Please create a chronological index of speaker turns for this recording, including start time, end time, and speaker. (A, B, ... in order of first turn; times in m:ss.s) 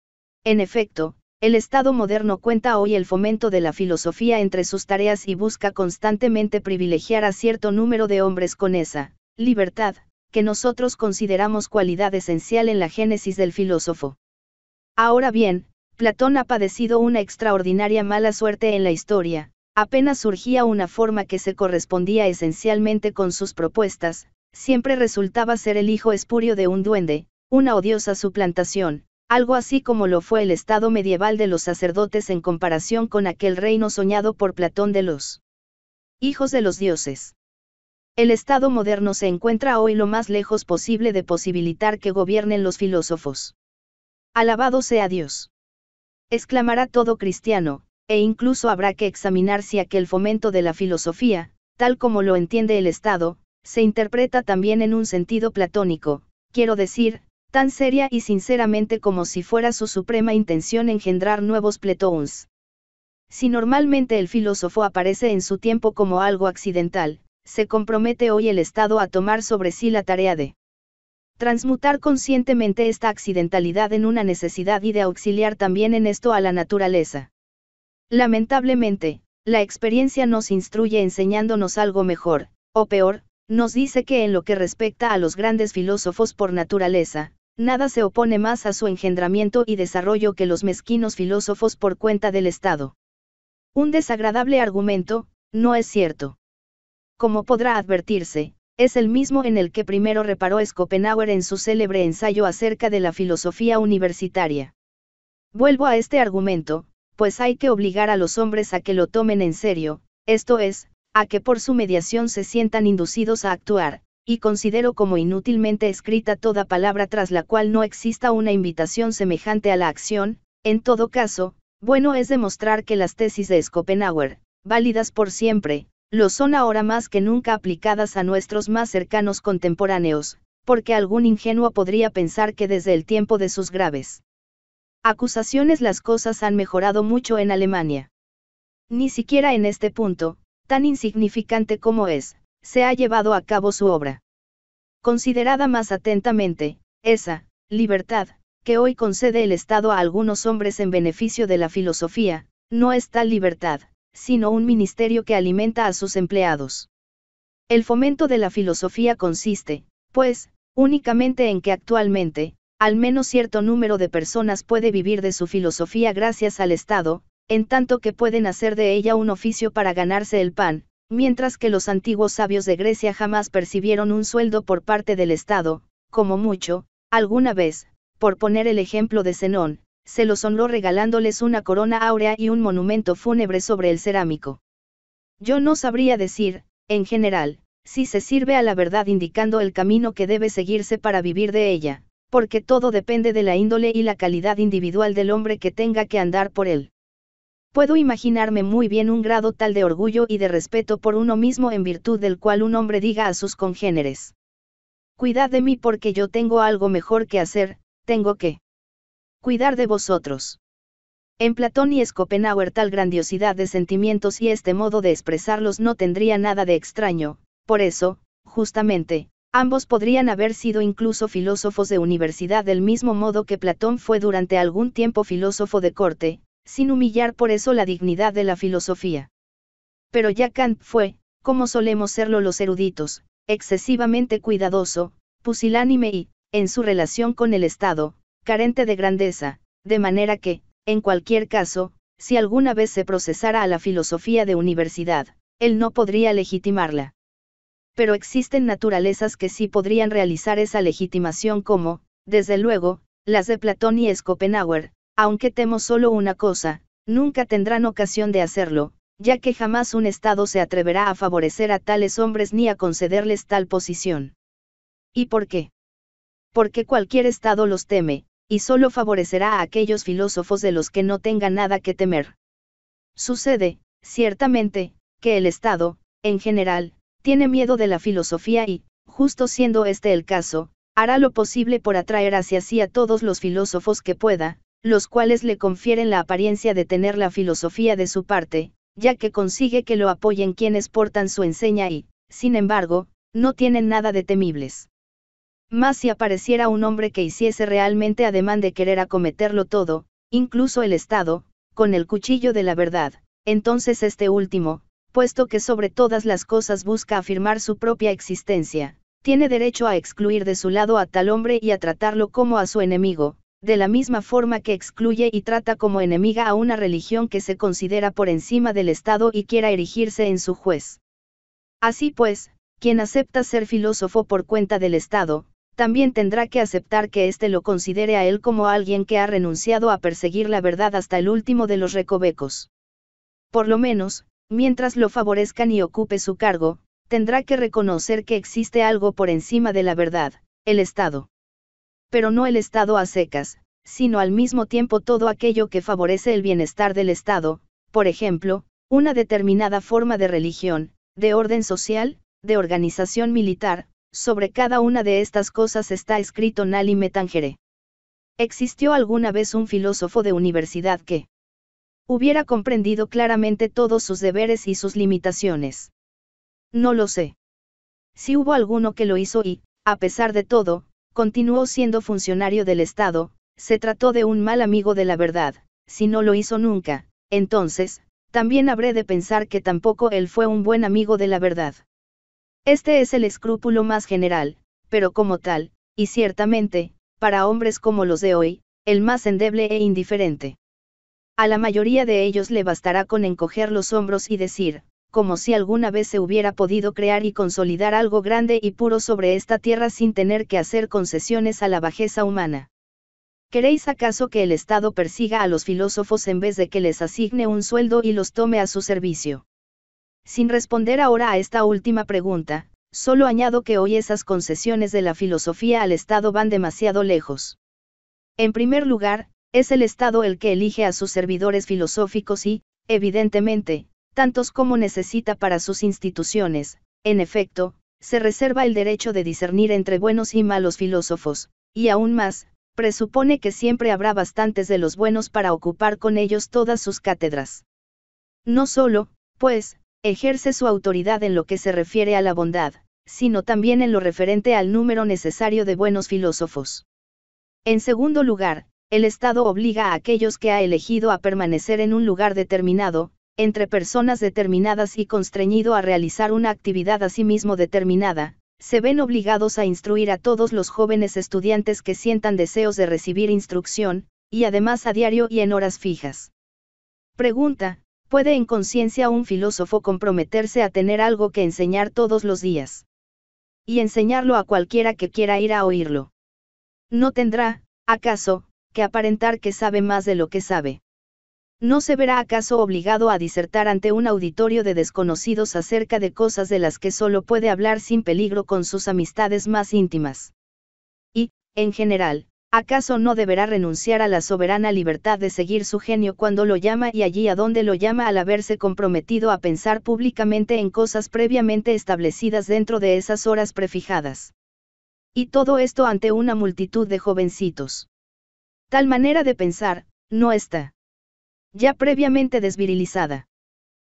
0:00.4-0:14.2 A
0:15.0-0:35.4 A
0:36.2-0:37.3 A
0:38.2-0:43.5 A
0:44.3-0:45.5 A
0:46.3-1:02.5 A
1:03.3-1:10.5 A
1:11.4-1:17.3 A
1:18.1-1:32.9 A
1:33.7-1:36.4 A
1:37.2-1:44.7 A
1:45.5-2:14.2 A
2:15.0-2:18.1 A
2:18.9-2:24.2 A
2:25.0-2:36.9 A
2:37.7-3:04.6 A
3:05.4-3:16.9 A
3:17.7-3:24.3 A
3:25.2-3:28.6 A
3:29.4-3:30.6 A
3:31.4-3:49.3 A
3:50.1-4:07.1 A
4:08.0-4:24.3 A
4:25.1-4:25.7 A
4:26.5-4:32.3 A
4:33.2-4:54.9 A
4:55.7-5:21.0 A
5:21.8-5:32.7 A
5:33.5-5:41.3 A
5:42.1-5:57.6 A
5:58.4-6:01.3 A
6:02.1-6:05.9 A
6:06.7-6:07.3 A
6:08.2-6:21.8 A
6:22.6-6:30.6 A
6:31.4-6:42.7 A
6:43.5-6:49.4 A
6:50.2-6:57.6 A
6:58.4-7:17.6 A
7:18.4-7:26.8 A
7:27.6-7:46.3 A
7:47.2-7:52.8 A
7:53.7-7:56.1 A
7:56.9-8:00.8 A
8:01.6-8:10.3 A
8:11.1-8:24.3 A
8:25.1-8:27.9 A
8:28.7-8:30.7 A
8:31.5-8:33.2 A